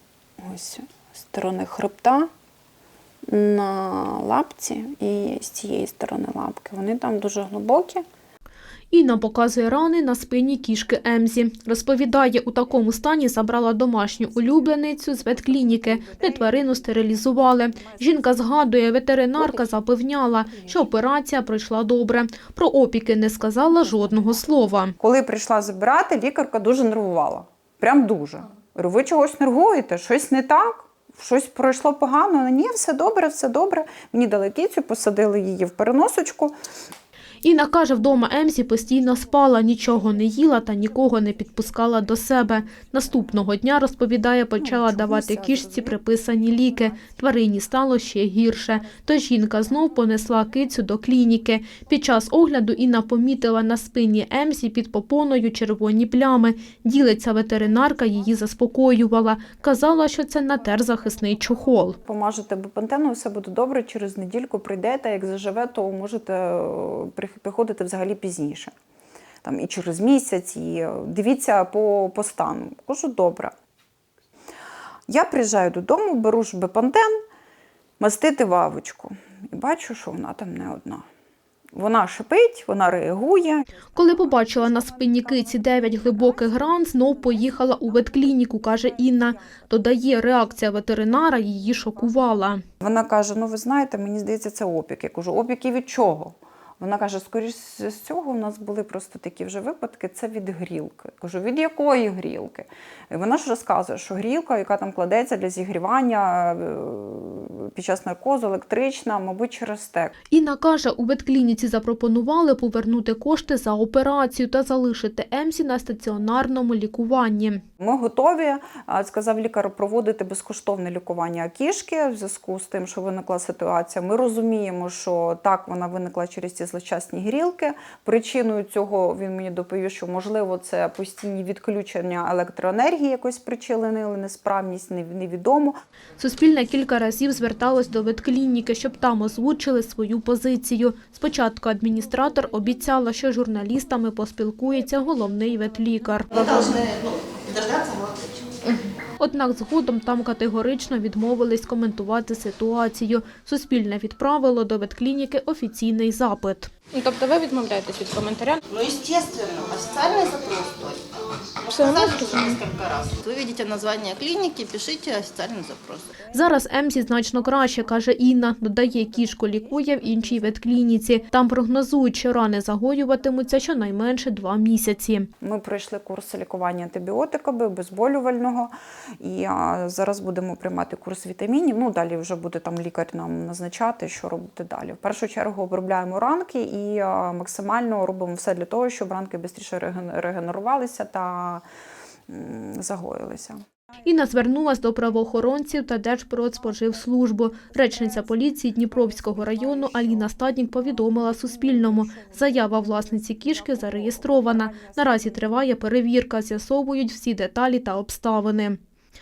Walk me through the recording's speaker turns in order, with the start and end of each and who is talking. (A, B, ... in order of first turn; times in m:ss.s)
0:00.4-0:02.3 A
0:03.3-0:08.0 A
0:08.9-0:25.0 B
0:14.9-0:18.3 A
0:19.4-0:19.7 A
0:20.5-0:20.9 A
0:25.0-0:36.6 A
0:37.4-1:02.0 B
0:44.6-0:46.0 A
1:01.2-1:01.7 C
1:02.0-1:08.7 A
1:09.4-1:13.5 A
1:15.1-1:17.2 A
1:18.0-1:21.0 A
1:21.7-1:28.3 A
1:24.0-1:32.6 B
1:29.0-1:29.7 A
1:32.8-1:50.1 A
1:50.3-1:57.6 B
1:57.8-2:15.8 A
2:16.2-2:26.3 B
2:26.3-2:28.6 D
2:29.2-2:36.7 B
2:36.8-2:38.6 C
2:38.7-2:46.2 D
2:41.7-2:42.6 C
2:46.3-2:55.3 B
2:55.4-3:11.6 A
3:12.3-3:13.6 A
3:14.0-3:28.8 B